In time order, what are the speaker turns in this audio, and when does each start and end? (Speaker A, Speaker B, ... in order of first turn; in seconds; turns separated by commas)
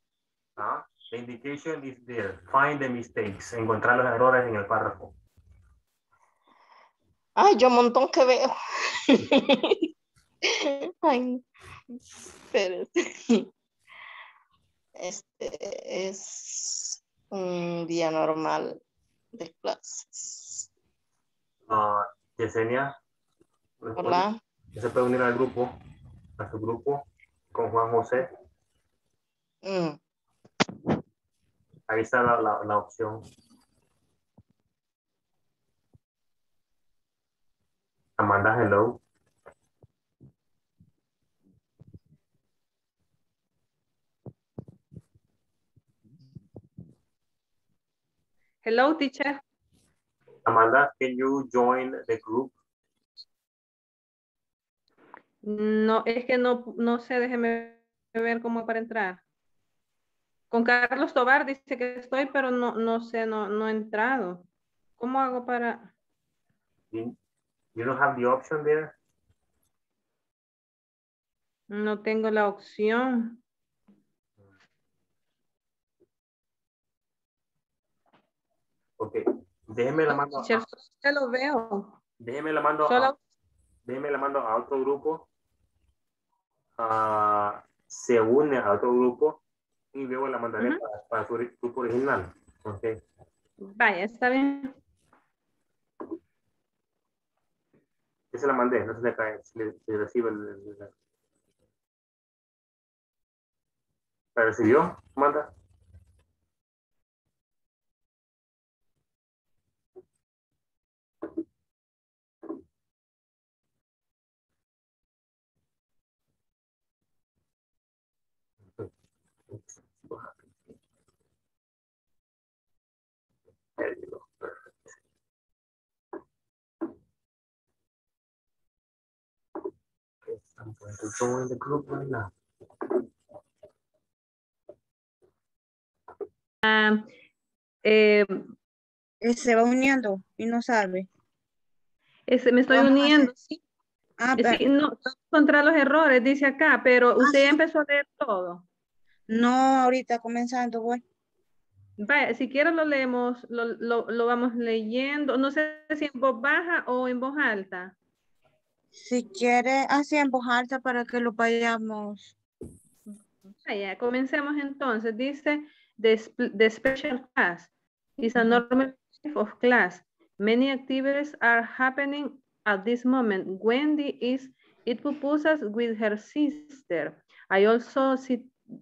Speaker A: 0.6-5.1, Speaker B: 7.4-9.8, Speaker B: 10.5-11.4, Speaker B: 12.5-13.4, Speaker B: 15.0-18.8, Speaker B: 19.3-20.7, Speaker A: 21.7-22.9, Speaker A: 23.8-25.7, Speaker B: 24.0-24.3, Speaker A: 26.4-27.0, Speaker A: 27.5-28.2, Speaker B: 29.6-30.0, Speaker A: 31.9-33.2, Speaker A: 38.2-39.0, Speaker C: 48.6-49.4, Speaker A: 50.5-52.5, Speaker C: 55.4-59.2, Speaker C: 60.5-64.5, Speaker C: 65.0-65.9, Speaker A: 67.7-68.9, Speaker C: 71.7-73.4, Speaker A: 79.0-80.6, Speaker C: 80.1-81.9, Speaker A: 82.2-83.1, Speaker C: 82.8-83.2, Speaker A: 83.8-85.2, Speaker A: 86.8-89.4, Speaker A: 89.9-93.0, Speaker C: 93.6-94.7, Speaker A: 98.3-100.9, Speaker A: 104.3-105.5, Speaker A: 119.5-120.4, Speaker A: 123.8-124.7, Speaker A: 130.3-132.3, Speaker C: 136.6-137.1, Speaker C: 137.8-138.5, Speaker D: 139.2-141.1, Speaker C: 142.3-143.6, Speaker D: 142.7-143.2, Speaker D: 144.2-144.6, Speaker C: 144.4-148.6, Speaker D: 147.2-147.6, Speaker D: 149.3-151.0, Speaker C: 152.0-157.9, Speaker D: 159.0-162.3, Speaker C: 163.4-178.5